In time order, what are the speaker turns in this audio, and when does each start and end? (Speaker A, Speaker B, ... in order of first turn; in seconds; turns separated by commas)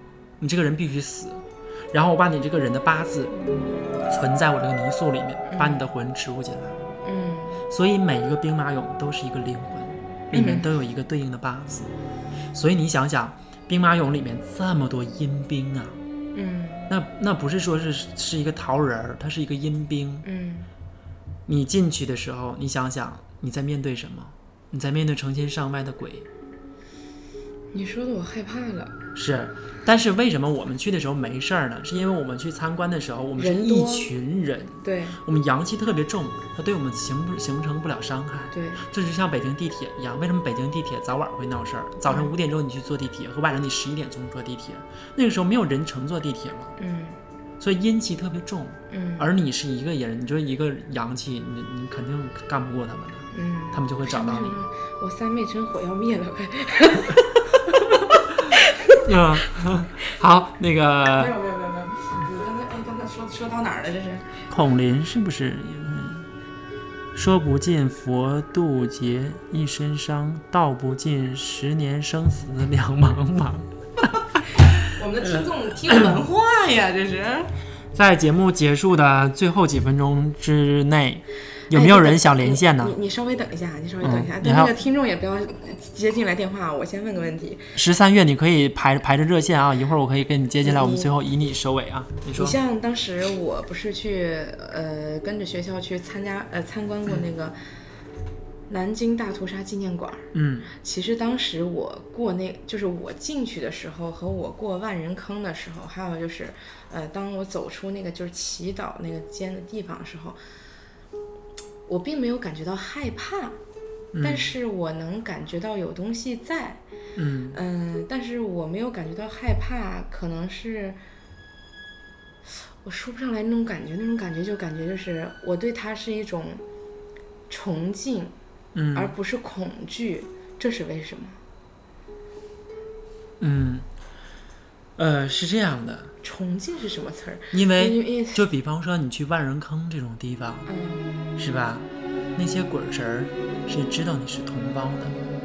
Speaker A: 0.4-3.3, Speaker A: 4.1-6.8, Speaker B: 5.5-5.8, Speaker B: 7.0-7.6, Speaker A: 7.7-11.9, Speaker B: 10.3-10.7, Speaker A: 12.5-16.0, Speaker B: 16.3-16.9, Speaker A: 16.9-20.2, Speaker B: 20.2-20.7, Speaker A: 21.5-26.3, Speaker B: 27.7-28.9, Speaker A: 29.1-46.7, Speaker B: 33.4-34.1, Speaker B: 34.8-35.2, Speaker B: 38.5-38.8, Speaker B: 42.1-42.3, Speaker B: 46.8-47.2, Speaker A: 47.6-54.6, Speaker B: 48.9-49.3, Speaker B: 53.3-59.0, Speaker A: 59.0-61.4, Speaker B: 61.1-64.4, Speaker A: 64.5-66.3, Speaker A: 67.1-74.1, Speaker B: 74.8-77.5, Speaker A: 75.2-76.2, Speaker A: 77.9-82.9, Speaker B: 81.7-87.7, Speaker A: 84.0-84.8, Speaker A: 87.7-92.6, Speaker B: 90.6-91.1, Speaker B: 92.3-97.5, Speaker B: 98.7-110.4, Speaker A: 100.3-100.7, Speaker B: 111.9-113.6, Speaker A: 114.1-114.5, Speaker B: 114.2-116.8, Speaker A: 117.2-117.6, Speaker B: 117.5-121.0, Speaker B: 122.8-126.6, Speaker B: 127.5-128.3, Speaker A: 128.7-129.1, Speaker B: 128.9-131.4, Speaker A: 133.4-133.9, Speaker A: 135.0-136.1, Speaker B: 136.2-138.4, Speaker A: 137.5-140.7, Speaker B: 140.7-141.1, Speaker A: 141.4-145.2